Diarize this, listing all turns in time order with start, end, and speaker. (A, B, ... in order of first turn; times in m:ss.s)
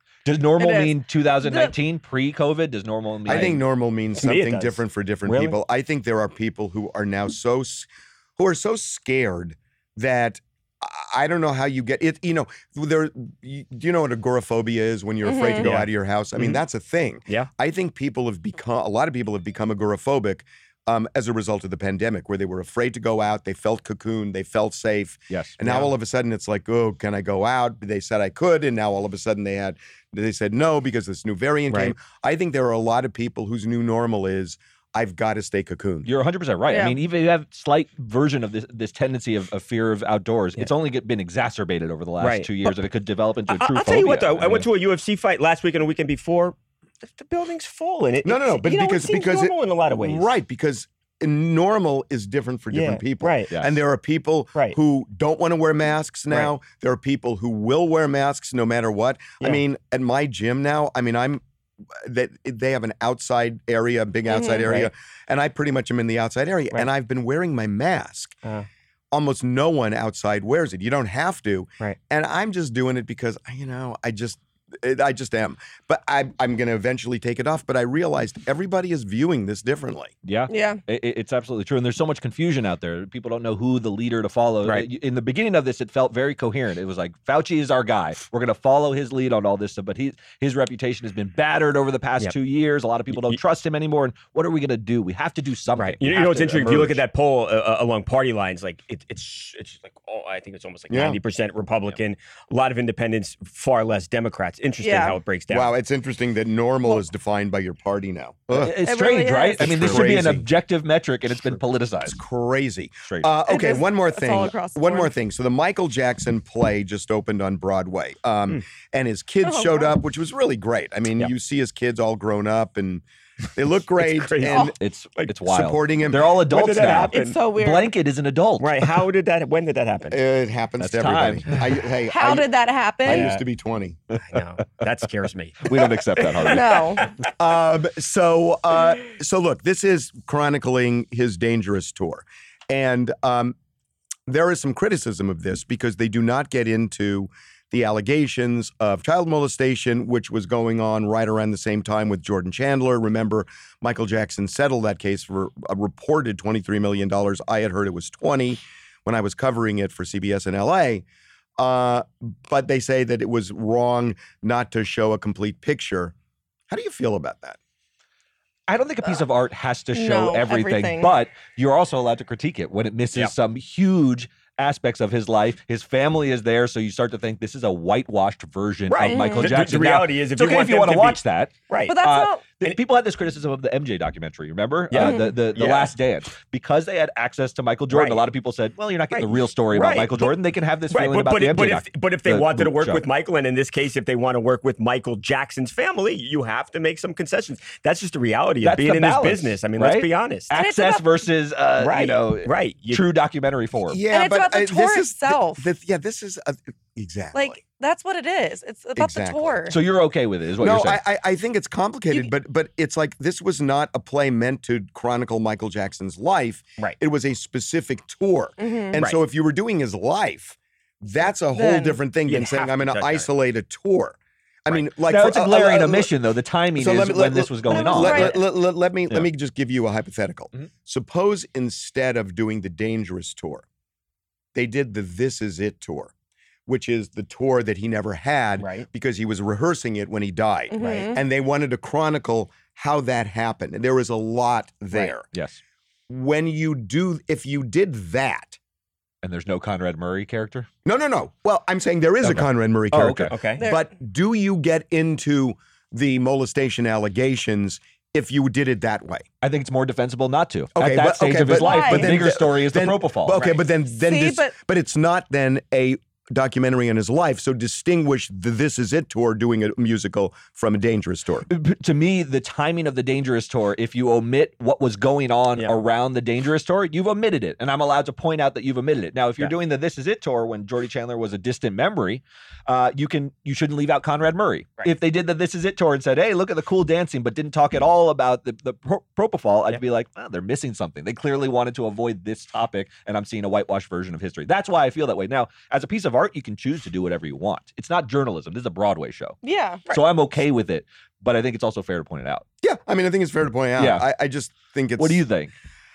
0:00.2-0:03.6 A
0:00.6-0:01.7 B
0:03.2-0:36.1 C
0:04.2-0:05.6 D
0:15.2-0:15.7 B
0:15.6-0:16.6 D
0:25.3-0:25.6 A
0:25.6-0:25.9 D
0:36.0-0:44.7 A
0:36.7-0:37.0 B
0:42.2-0:42.8 D
0:43.5-0:50.3 D
0:48.2-1:01.4 C
0:52.7-0:53.5 D
1:01.9-1:08.4 C
1:04.3-1:04.6 B
1:04.6-1:04.9 D
1:09.1-1:20.1 C
1:20.2-1:37.0 A
1:20.5-1:20.8 B
1:33.1-1:33.4 D
1:35.8-1:45.7 D
1:36.4-1:36.9 C
1:40.9-1:41.2 C
1:44.8-1:45.2 B
1:45.5-1:48.8 C
1:48.6-1:52.2 A
1:48.8-1:50.0 B
1:49.6-1:50.5 C
1:52.0-2:03.0 C
1:53.5-1:55.1 B
1:59.4-1:59.9 B
2:03.5-2:04.8 C
2:04.0-2:05.3 D
2:04.6-2:08.9 A
2:05.4-2:07.1 C
2:06.5-2:07.4 D
2:07.1-2:07.9 B
2:08.6-2:10.2 D
2:10.1-2:12.5 C
2:10.8-2:11.8 A
2:12.1-2:13.3 B
2:13.0-2:14.0 C
2:13.0-2:13.4 D
2:14.3-2:16.3 D
2:15.6-2:17.1 A
2:16.4-2:17.0 B
2:17.4-2:23.6 C
2:24.3-2:41.0 C
2:41.6-2:46.1 C
2:46.7-2:47.6 C
2:48.7-3:13.0 A
2:49.9-2:51.1 B
2:58.9-3:02.0 D
2:59.0-2:59.5 B
3:01.9-3:02.4 B
3:04.9-3:05.9 D
3:05.0-3:05.3 B
3:07.9-3:08.2 D
3:09.1-3:10.4 D
3:10.9-3:20.5 D
3:18.6-3:24.0 A
3:20.5-3:21.1 B
3:21.8-3:23.0 D
3:23.9-3:27.6 C
3:24.1-3:25.6 B
3:27.3-3:29.8 B
3:29.0-3:29.6 C
3:29.7-3:31.0 A
3:30.6-3:46.1 C
3:38.6-3:39.0 B
3:41.5-3:42.0 B
3:42.3-3:43.3 D
3:45.0-3:48.3 A
3:46.7-3:53.6 C
3:47.7-3:48.4 B
3:54.5-3:56.1 C
3:56.7-4:05.3 C
3:58.6-3:58.8 D
4:00.7-4:01.2 B
4:05.3-4:05.6 A
4:06.1-4:08.6 C
4:09.2-4:10.7 A
4:10.8-4:19.2 C
4:12.2-4:13.3 A
4:13.3-4:13.6 D
4:13.6-4:13.9 B
4:19.4-4:23.4 A
4:20.8-4:31.5 C
4:21.5-4:22.2 B
4:23.3-4:23.6 D
4:24.0-4:24.5 B
4:31.5-4:59.4 A
4:59.4-4:59.8 B
4:59.9-5:02.4 A
5:02.6-5:05.3 C
5:03.8-5:04.0 A
5:05.0-5:05.5 A